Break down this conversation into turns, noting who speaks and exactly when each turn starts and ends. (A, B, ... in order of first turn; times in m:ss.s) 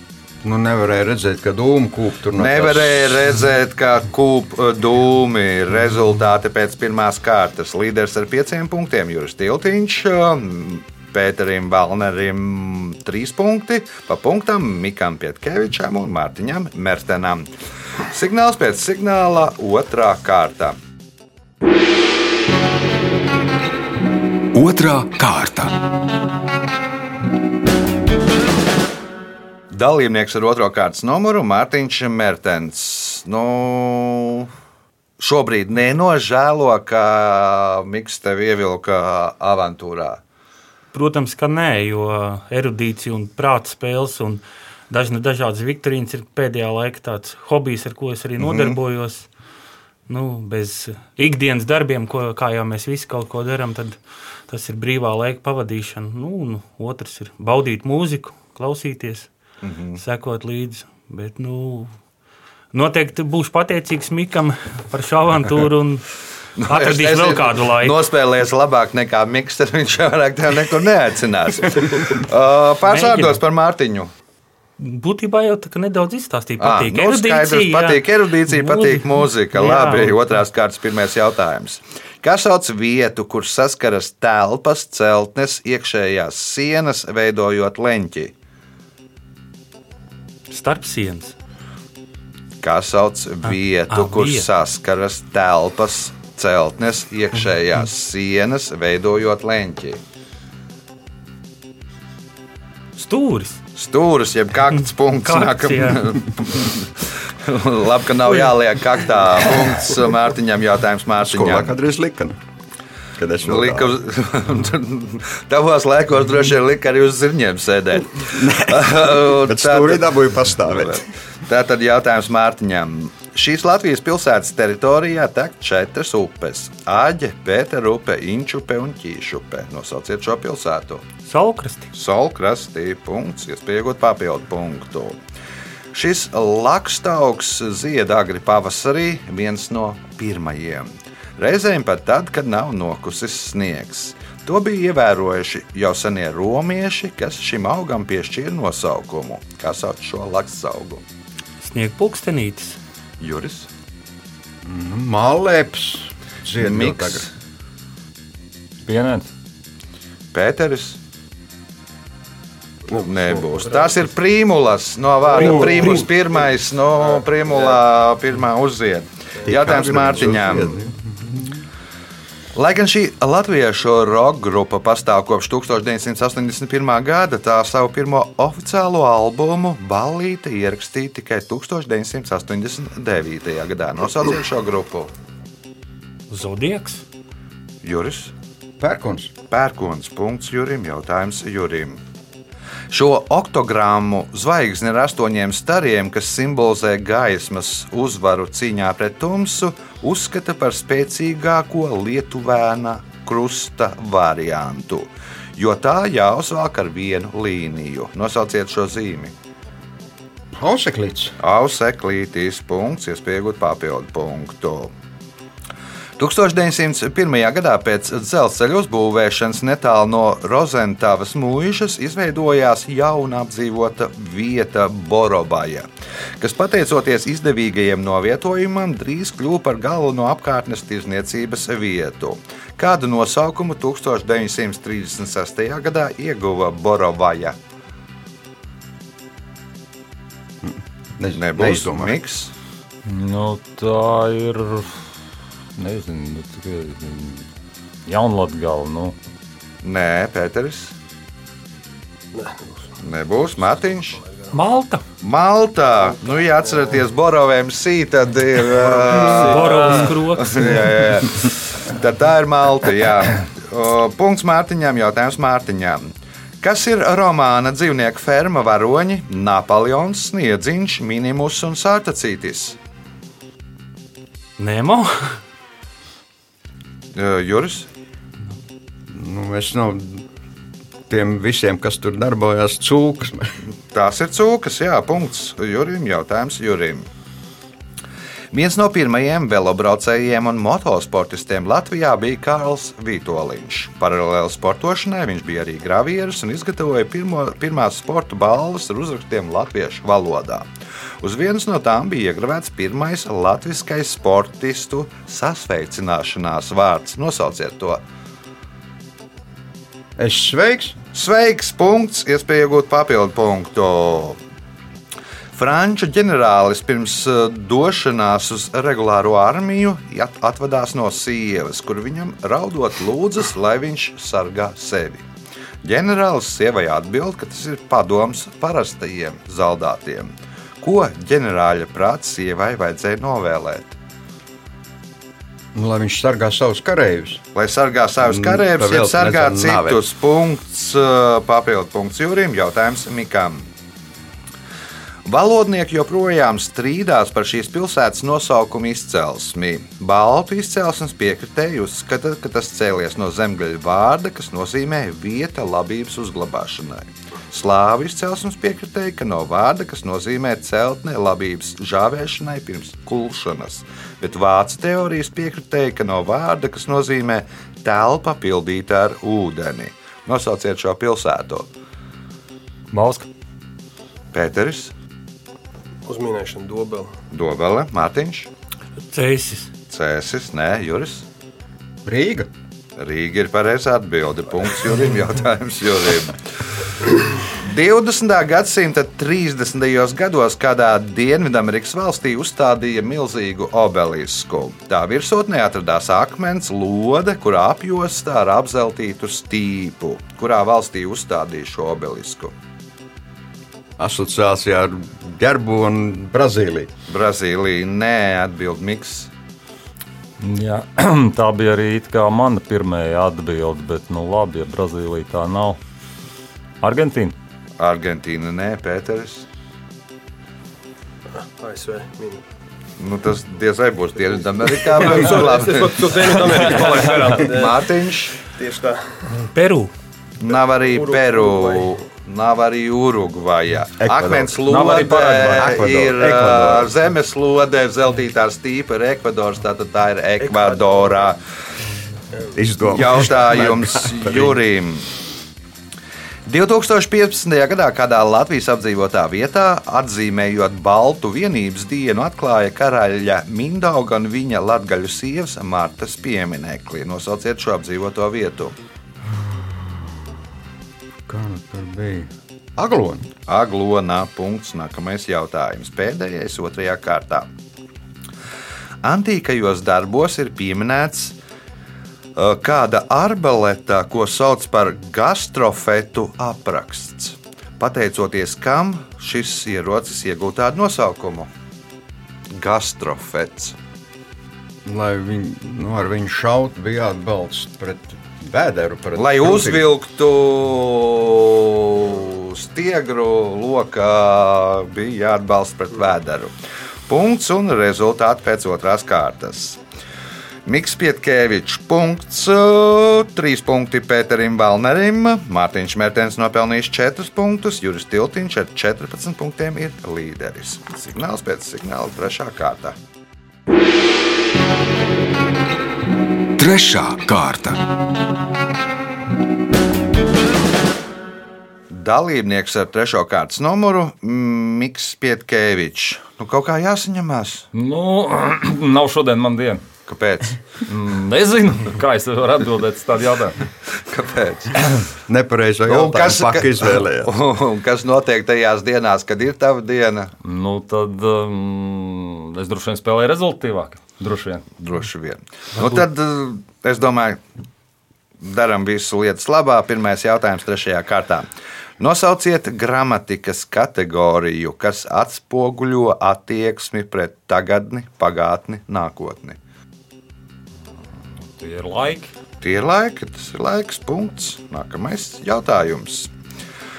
0:00.4-0:03.2 A
0:02.4-0:17.5 B
0:18.1-0:20.8 B
0:24.5-0:25.7 C
0:29.7-0:34.5 B
0:35.2-0:40.2 B
0:40.9-0:49.3 D
0:48.4-0:48.8 B
0:50.1-0:59.3 D
0:59.6-1:00.0 B
1:00.0-1:01.9 D
1:02.7-1:06.1 D
1:06.6-1:14.1 B
1:06.7-1:08.0 D
1:12.9-1:13.4 D
1:14.8-1:20.3 D
1:16.6-1:28.3 B
1:30.5-1:31.3 D
1:32.6-1:40.0 B
1:33.9-1:34.5 D
1:43.0-1:43.6 D
1:43.8-1:51.7 B
1:45.1-1:46.1 D
1:51.2-1:52.4 A
1:53.2-1:53.9 A
1:53.4-2:11.0 B
1:58.2-2:01.0 A
2:11.2-2:11.9 D
2:11.9-2:15.2 B
2:15.9-2:31.0 B
2:31.6-2:32.8 D
2:33.2-2:33.7 B
2:34.6-2:37.3 A
2:36.6-2:37.3 B
2:38.8-2:39.3 E
2:40.3-2:41.0 B
2:42.9-2:44.0 F
2:43.0-2:50.8 B
2:45.2-2:46.1 F
2:49.4-2:51.6 A
2:52.5-3:05.1 B
3:06.3-3:07.0 D
3:07.8-3:08.3 B
3:08.8-3:09.3 A
3:09.5-3:12.0 B
3:12.9-3:29.3 B
3:30.5-3:31.4 A
3:31.4-3:34.9 B
3:36.2-3:45.9 B
3:46.4-3:57.6 B
4:00.6-4:02.2 A
4:01.3-4:02.5 B
4:03.0-4:05.0 E
4:05.8-4:07.4 E
4:08.0-4:09.1 E
4:09.8-4:10.9 B
4:12.3-4:12.9 F
4:13.0-4:14.2 B
4:14.2-4:14.6 F
4:14.5-4:15.0 D
4:15.2-4:32.8 B
4:18.8-4:20.1 F
4:19.2-4:20.8 D
4:34.6-4:35.4 D
4:37.1-4:37.9 B
4:39.1-4:40.2 A
4:41.1-4:43.5 A
4:43.9-4:47.1 B
4:48.5-5:00.6 B
5:01.2-5:08.0 B
5:10.2-5:11.0 A
5:11.1-5:14.4 B
5:15.5-5:25.2 B
5:25.8-5:34.0 B
5:35.7-5:37.4 A
5:37.5-5:43.7 B
5:38.2-5:40.0 A
5:45.2-6:11.7 B
6:12.9-6:13.3 E
6:14.3-6:14.9 B
6:16.0-6:17.1 F
6:17.3-6:18.5 B
6:19.1-6:19.7 D
6:19.9-6:21.2 B
6:22.0-6:22.5 A
6:23.0-6:26.4 B
6:27.4-6:42.5 B
6:44.0-6:46.9 A
6:47.1-6:49.3 B
6:50.4-6:55.8 E
6:56.8-6:57.3 E
6:57.8-6:59.4 B
7:01.3-7:02.4 F
7:03.0-7:08.4 B
7:04.8-7:09.3 F
7:09.3-7:09.9 D
7:10.4-7:21.4 B
7:10.5-7:12.0 F
7:14.0-7:14.6 A
7:14.6-7:15.8 E
7:15.6-7:16.9 A
7:20.4-7:21.3 F
7:22.5-7:24.6 A
7:22.9-7:25.1 B
7:26.4-7:38.7 B
7:39.2-7:40.4 A
7:41.3-7:43.3 A
7:43.5-7:47.5 B
7:49.0-7:51.4 B
7:52.4-8:01.5 B
8:02.5-8:03.8 B
8:04.8-8:09.8 A
8:09.2-8:16.5 B
8:17.1-8:19.8 B
8:20.6-8:33.0 B
8:36.6-8:37.8 C
8:41.9-8:47.7 B
8:47.7-8:49.8 E
8:50.1-8:50.6 B
8:50.9-8:53.6 E
8:54.1-8:54.9 B
8:55.3-8:57.3 A
8:55.9-9:00.3 B
9:00.4-9:04.6 E
9:04.8-9:07.4 B
9:08.4-9:11.5 B
9:12.0-9:19.6 B
9:21.0-9:22.3 E
9:22.6-9:26.3 B